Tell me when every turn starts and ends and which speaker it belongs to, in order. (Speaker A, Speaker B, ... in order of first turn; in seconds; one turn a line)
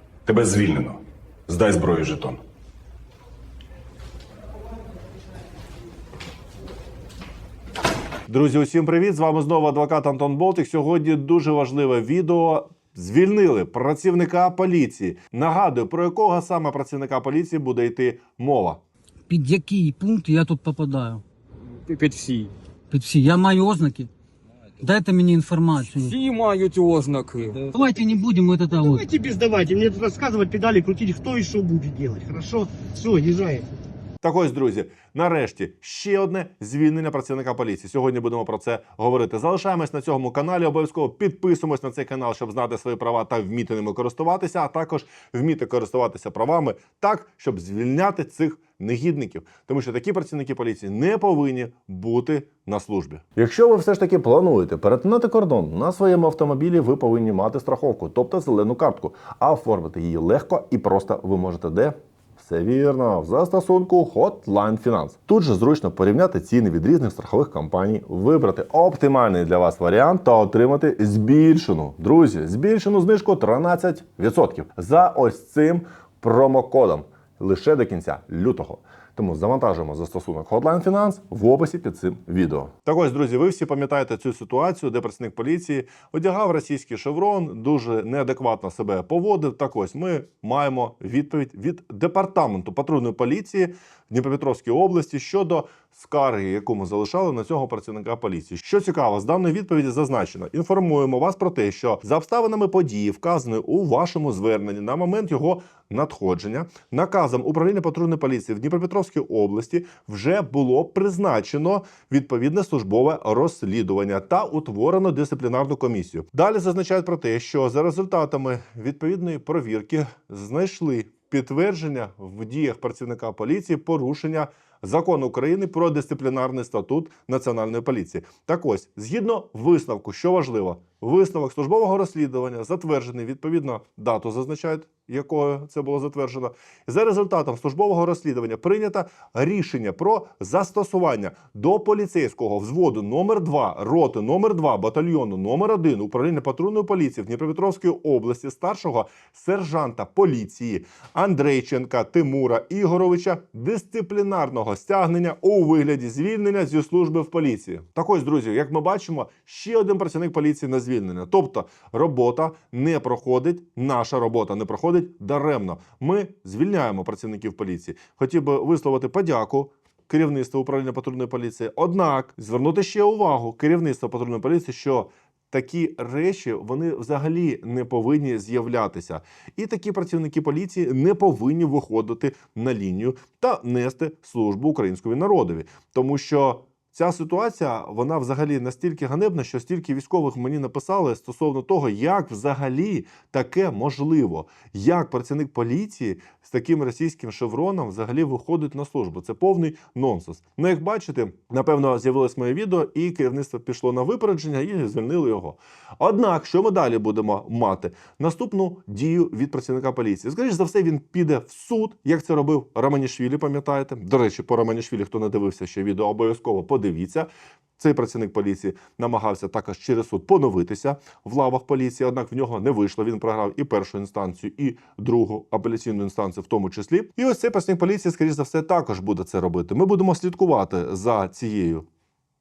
Speaker A: 0.2-2.4
Speaker B: 8.3-18.8
Speaker C: 19.3-21.2
Speaker D: 21.6-22.5
Speaker C: 22.9-24.1
Speaker C: 24.8-26.1
Speaker D: 25.8-27.6
Speaker C: 27.7-29.1
Speaker E: 28.8-33.7
Speaker B: 34.2-231.8